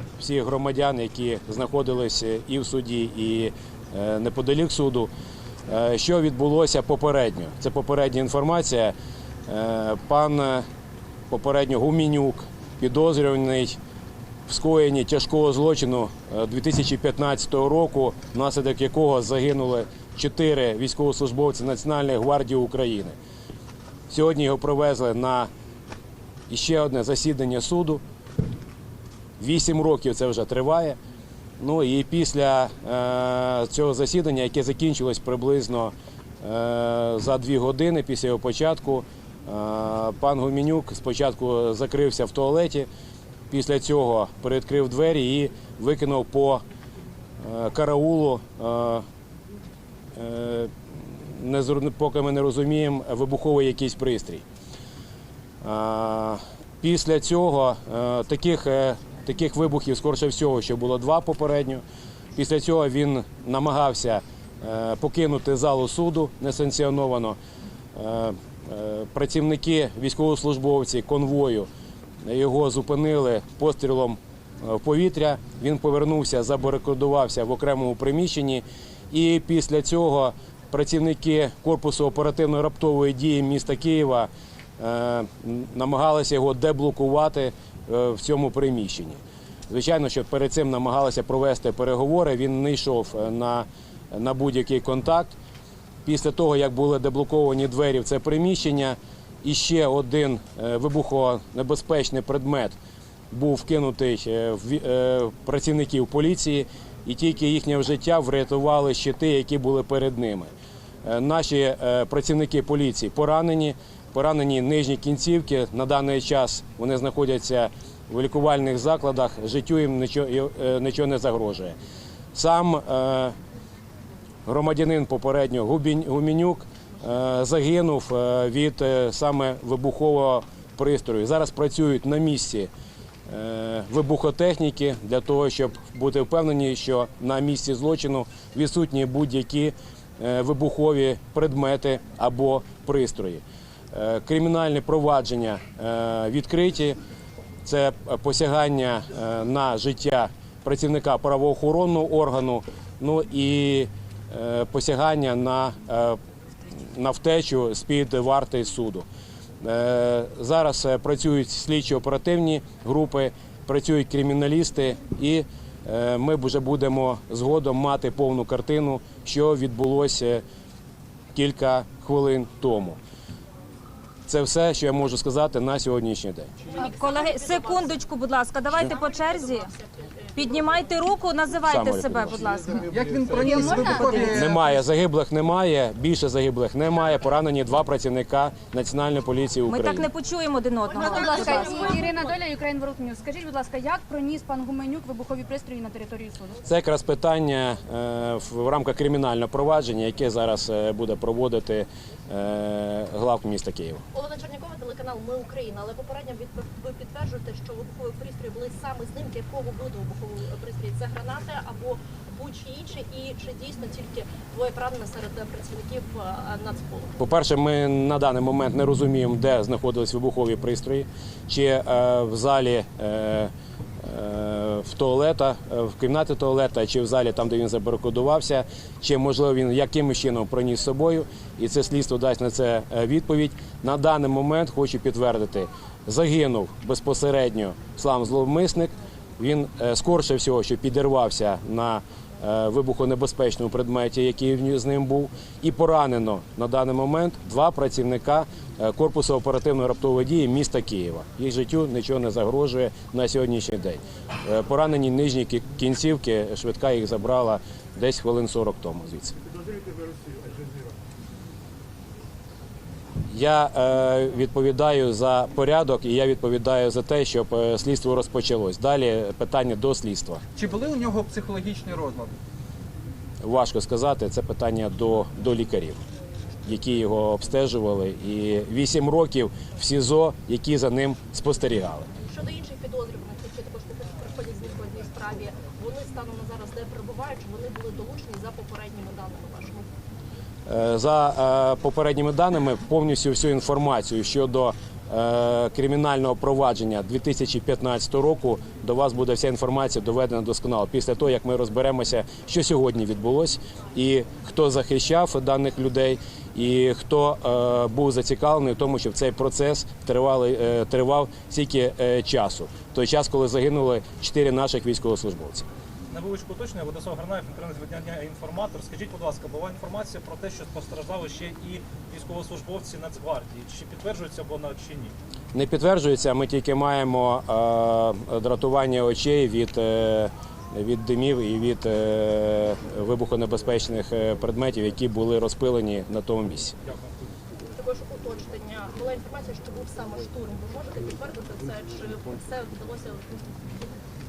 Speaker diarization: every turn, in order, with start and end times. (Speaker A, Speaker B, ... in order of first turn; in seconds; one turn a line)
Speaker A: 0.2-5.1
Speaker A: 5.7-8.9
Speaker A: 9.5-10.7
Speaker A: 11.3-13.8
Speaker A: 14.5-23.2
Speaker A: 24.1-25.5
Speaker A: 26.5-28.0
Speaker A: 29.4-31.0
Speaker A: 31.6-42.9
Speaker A: 43.5-46.6
Speaker A: 47.4-49.0
Speaker A: 50.2-54.4
Speaker A: 55.6-61.8
Speaker A: 62.4-67.4
Speaker A: 68.0-71.7
Speaker A: 72.2-95.3
Speaker A: 96.0-102.8
Speaker A: 103.3-110.5
Speaker A: 111.0-121.8
Speaker A: 122.3-123.3
Speaker A: 124.5-132.7
Speaker A: 133.3-147.0
Speaker A: 147.6-156.2
Speaker A: 156.8-159.1
Speaker A: 159.6-170.4
Speaker A: 171.3-173.0
Speaker A: 174.3-176.5
Speaker B: 176.7-178.0
Speaker C: 176.8-179.7
Speaker B: 178.7-180.9
Speaker C: 180.4-182.9
Speaker A: 181.6-182.5
Speaker D: 182.7-184.7
Speaker E: 183.3-184.3
Speaker A: 184.3-190.1
Speaker C: 189.7-192.0
Speaker B: 190.9-192.4
Speaker E: 191.2-196.6
Speaker A: 196.6-204.1
Speaker B: 204.1-217.2
Speaker A: 217.2-259.3
Speaker A: 263.3-270.4
Speaker D: 270.6-272.4
Speaker A: 273.4-276.0
Speaker A: 276.6-282.1
Speaker B: 282.3-289.9
Speaker A: 290.7-315.7
Speaker F: 316.1-325.1
Speaker A: 325.5-336.8
Speaker B: 337.8-343.9